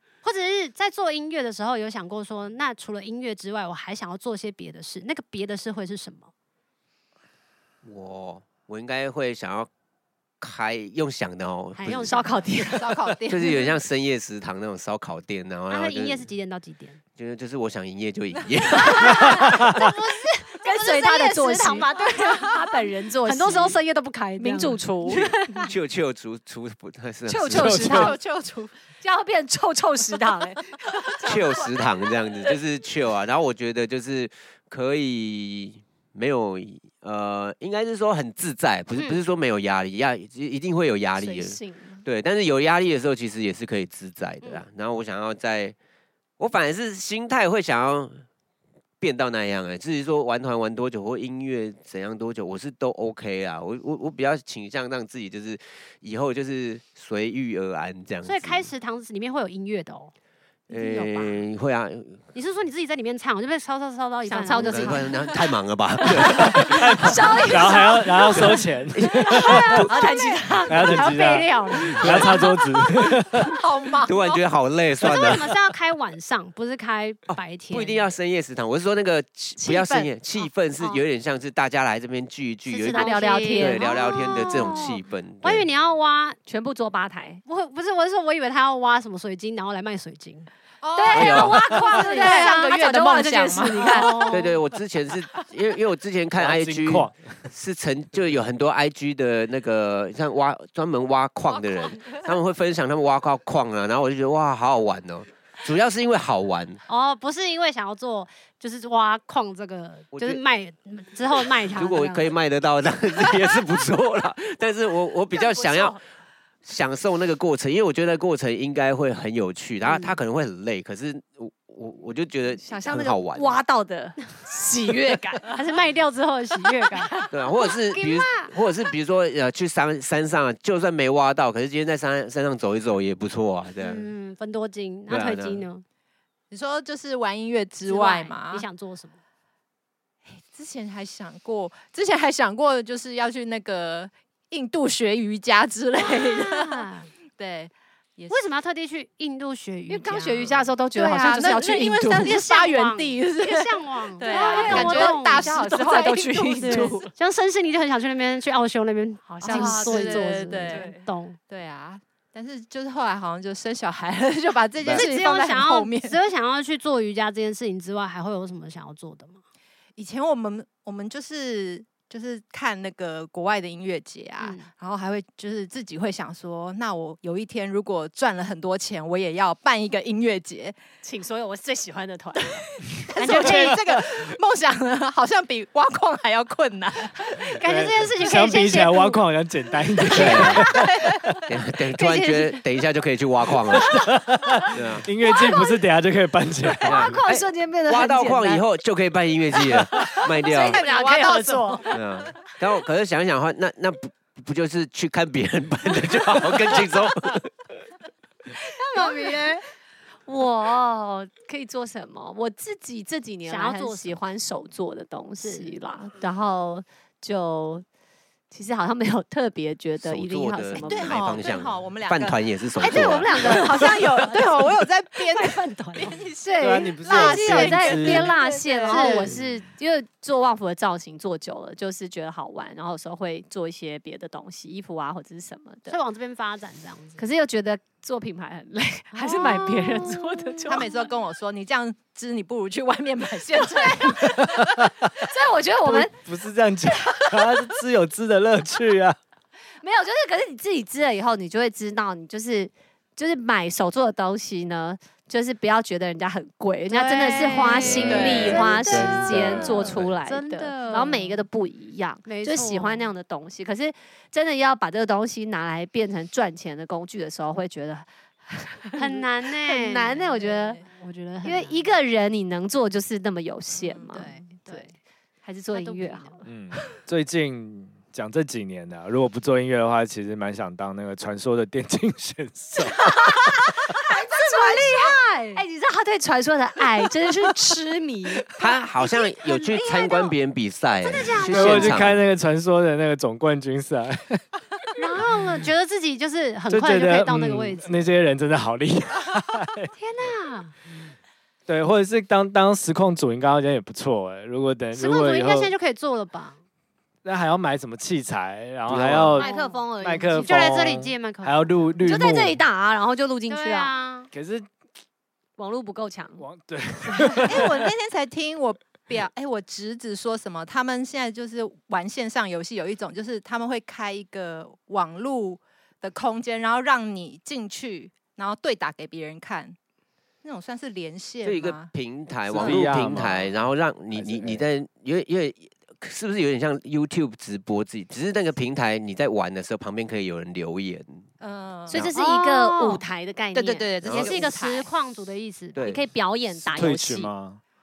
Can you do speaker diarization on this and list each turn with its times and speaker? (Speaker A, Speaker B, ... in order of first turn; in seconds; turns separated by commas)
Speaker A: 0.2-6.3, Speaker B: 7.8-9.7, Speaker B: 10.4-12.3, Speaker A: 11.8-12.5, Speaker C: 11.9-13.0, Speaker D: 12.6-13.7, Speaker B: 13.3-16.3, Speaker A: 15.7-17.0, Speaker B: 17.2-19.7, Speaker A: 18.7-25.7, Speaker C: 20.6-23.8, Speaker C: 24.4-25.4, Speaker B: 25.6-28.1, Speaker C: 27.3-28.2, Speaker E: 27.5-28.1, Speaker D: 27.8-28.7, Speaker C: 29.0-31.7, Speaker B: 31.2-45.8, Speaker A: 38.9-39.2, Speaker C: 41.2-42.0, Speaker B: 46.4-48.2, Speaker B: 49.0-58.7, Speaker A: 58.2-60.1, Speaker A: 60.7-61.4, Speaker B: 60.7-62.2, Speaker A: 62.3-65.2, Speaker C: 64.2-65.3, Speaker B: 64.6-67.2, Speaker C: 66.0-68.6, Speaker E: 66.3-69.8, Speaker A: 67.2-67.8, Speaker B: 68.3-70.2, Speaker A: 69.3-72.7, Speaker C: 69.4-71.1, Speaker E: 70.7-73.5, Speaker B: 70.7-71.0, Speaker C: 71.9-72.3, Speaker B: 72.0-72.4, Speaker D: 73.5-74.4, Speaker B: 74.0-75.4, Speaker A: 75.0-78.1, Speaker B: 77.3-85.7, Speaker C: 79.6-80.1, Speaker A: 82.7-86.4, Speaker C: 82.9-84.9, Speaker C: 86.5-87.4, Speaker A: 87.4-90.5, Speaker D: 90.8-94.3, Speaker C: 91.0-94.4, Speaker B: 91.1-91.6, Speaker A: 91.9-92.7, Speaker A: 93.7-94.5, Speaker B: 94.3-106.8, Speaker E: 96.4-97.5, Speaker D: 101.5-102.3, Speaker A: 106.9-112.3, Speaker B: 110.1-110.4, Speaker B: 111.7-116.0, Speaker C: 115.3-116.0, Speaker B: 116.6-123.6, Speaker A: 119.8-120.2, Speaker C: 122.6-125.6, Speaker A: 125.5-127.2, Speaker C: 126.8-127.3, Speaker B: 127.3-134.1, Speaker A: 127.9-128.5, Speaker A: 133.8-135.8, Speaker B: 135.1-135.6, Speaker D: 136.5-138.7, Speaker A: 137.8-139.2, Speaker D: 140.3-148.4, Speaker A: 146.1-147.1, Speaker A: 148.3-150.6, Speaker C: 149.9-152.4, Speaker D: 150.9-157.1, Speaker A: 152.1-155.5, Speaker C: 154.2-157.1, Speaker A: 156.6-161.4, Speaker C: 159.4-161.0, Speaker D: 159.4-166.1, Speaker A: 164.9-169.4, Speaker D: 169.9-180.8, Speaker A: 174.4-174.7, Speaker C: 181.0-183.7, Speaker D: 183.1-187.5, Speaker E: 183.2-184.2, Speaker A: 183.2-183.8, Speaker A: 187.4-189.2, Speaker E: 187.5-191.4, Speaker D: 190.1-191.2, Speaker A: 190.1-190.6, Speaker B: 190.1-190.7, Speaker B: 191.5-193.9, Speaker C: 192.0-192.5, Speaker E: 193.7-197.1, Speaker B: 194.7-195.1, Speaker C: 196.8-198.6, Speaker B: 196.9-200.8, Speaker C: 199.6-202.0, Speaker D: 200.4-202.0, Speaker B: 201.9-207.5, Speaker A: 208.6-209.6, Speaker C: 209.0-209.3, Speaker C: 210.3-217.8, Speaker A: 213.4-214.2, Speaker A: 215.4-215.8, Speaker C: 218.5-221.4, Speaker B: 220.0-223.6, Speaker D: 220.8-229.3, Speaker C: 222.8-224.4, Speaker A: 223.8-224.5, Speaker A: 225.3-226.2, Speaker C: 226.4-236.0, Speaker E: 226.6-228.3, Speaker A: 228.8-229.3, Speaker A: 235.9-237.2, Speaker C: 237.2-240.9, Speaker A: 239.1-240.8, Speaker D: 240.7-244.7, Speaker E: 244.2-245.1, Speaker C: 245.2-246.1, Speaker E: 245.8-249.2, Speaker C: 249.8-270.8, Speaker A: 256.9-261.4, Speaker E: 257.7-260.1, Speaker D: 258.0-258.6, Speaker A: 262.2-263.1, Speaker A: 268.9-270.3, Speaker D: 270.1-270.9, Speaker A: 270.8-271.8, Speaker C: 271.4-274.9, Speaker D: 273.8-274.2, Speaker A: 274.1-274.9, Speaker C: 275.4-276.4, Speaker A: 275.7-276.4, Speaker E: 276.4-283.2, Speaker A: 283.9-285.6, Speaker C: 283.9-288.5, Speaker B: 288.6-292.2, Speaker C: 289.5-290.3, Speaker A: 289.5-289.7, Speaker A: 291.0-292.0, Speaker E: 291.4-294.4, Speaker A: 294.9-297.9, Speaker E: 295.3-295.6, Speaker E: 296.7-299.9, Speaker A: 299.9-300.7, Speaker E: 301.7-305.7, Speaker A: 304.9-306.6, Speaker E: 307.2-312.6, Speaker B: 308.9-309.4, Speaker C: 309.4-310.6, Speaker A: 309.4-309.8, Speaker A: 310.4-311.9, Speaker C: 312.0-313.9, Speaker A: 313.5-314.3, Speaker E: 314.3-314.7, Speaker C: 315.6-316.4, Speaker E: 316.4-317.9, Speaker D: 317.4-329.8, Speaker D: 330.4-331.9, Speaker B: 331.4-341.3, Speaker E: 332.5-333.6, Speaker E: 334.1-334.6, Speaker D: 341.4-342.0, Speaker C: 341.9-343.9, Speaker A: 342.1-343.0, Speaker D: 343.5-344.9, Speaker B: 344.0-344.5, Speaker A: 344.1-345.9, Speaker B: 345.7-346.0, Speaker C: 345.8-347.3, Speaker E: 346.7-347.6